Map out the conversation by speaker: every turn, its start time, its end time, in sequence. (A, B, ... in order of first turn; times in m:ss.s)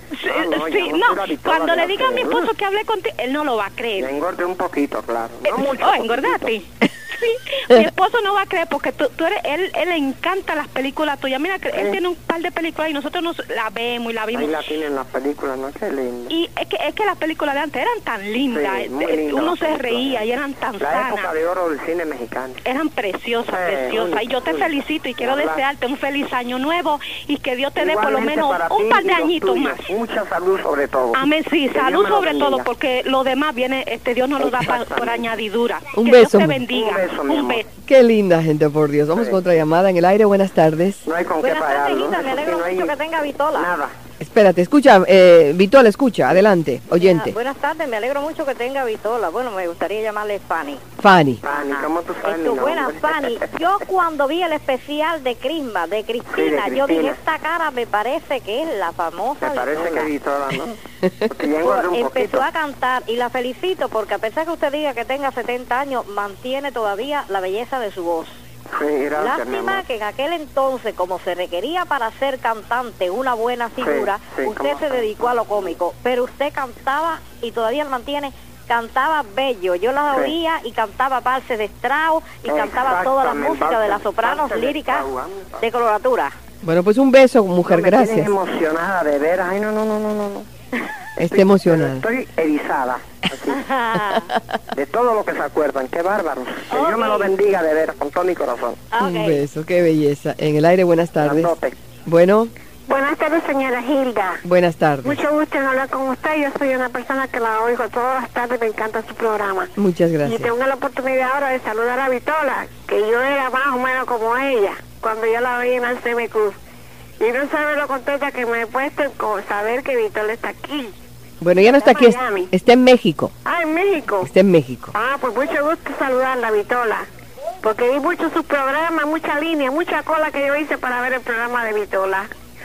0:00.1-0:04.1 A
0:00.3-0:02.5 B
0:04.0-0:06.5 B
0:05.5-0:14.6 A
0:11.7-0:12.0 B
0:14.3-0:16.3 B
0:16.3-0:21.3 A
0:18.5-0:20.2 B
0:20.8-0:22.6 B
0:22.6-0:29.9 A
0:23.5-0:25.6 B
0:27.8-0:32.7 B
0:31.1-0:37.6 A
0:34.4-0:35.3 B
0:35.9-0:36.6 C
0:36.7-0:37.6 B
0:37.8-0:41.1 C
0:41.0-0:42.9 B
0:41.4-0:43.7 D
0:43.5-0:43.9 B
0:44.2-0:47.4 C
0:46.9-0:50.8 D
0:51.0-0:51.4 C
0:51.4-0:53.4 B
0:51.7-1:00.1 D
0:56.3-0:57.2 B
0:59.4-1:00.8 B
1:01.3-1:02.4 B
1:01.6-1:08.4 D
1:08.7-1:09.8 B
1:09.2-1:25.0 D
1:13.8-1:15.4 B
1:22.4-1:25.6 B
1:25.6-1:26.3 D
1:26.6-1:28.3 C
1:27.6-1:30.5 B
1:31.2-1:32.0 C
1:31.3-1:33.6 B
1:33.5-1:34.3 D
1:34.7-1:38.8 B
1:36.7-1:37.3 D
1:38.9-1:39.4 D
1:39.0-1:41.5 C
1:41.2-1:41.8 B
1:42.0-1:42.5 C
1:42.9-1:44.4 E
1:44.4-1:45.2 C
1:45.0-1:49.7 E
1:49.8-1:50.5 C
1:50.2-1:56.6 E
1:57.2-2:00.9 E
2:01.4-2:03.3 C
2:01.5-2:02.5 E
2:03.4-2:04.3 E
2:04.2-2:04.9 C
2:04.9-2:07.1 E
2:07.6-2:12.3 E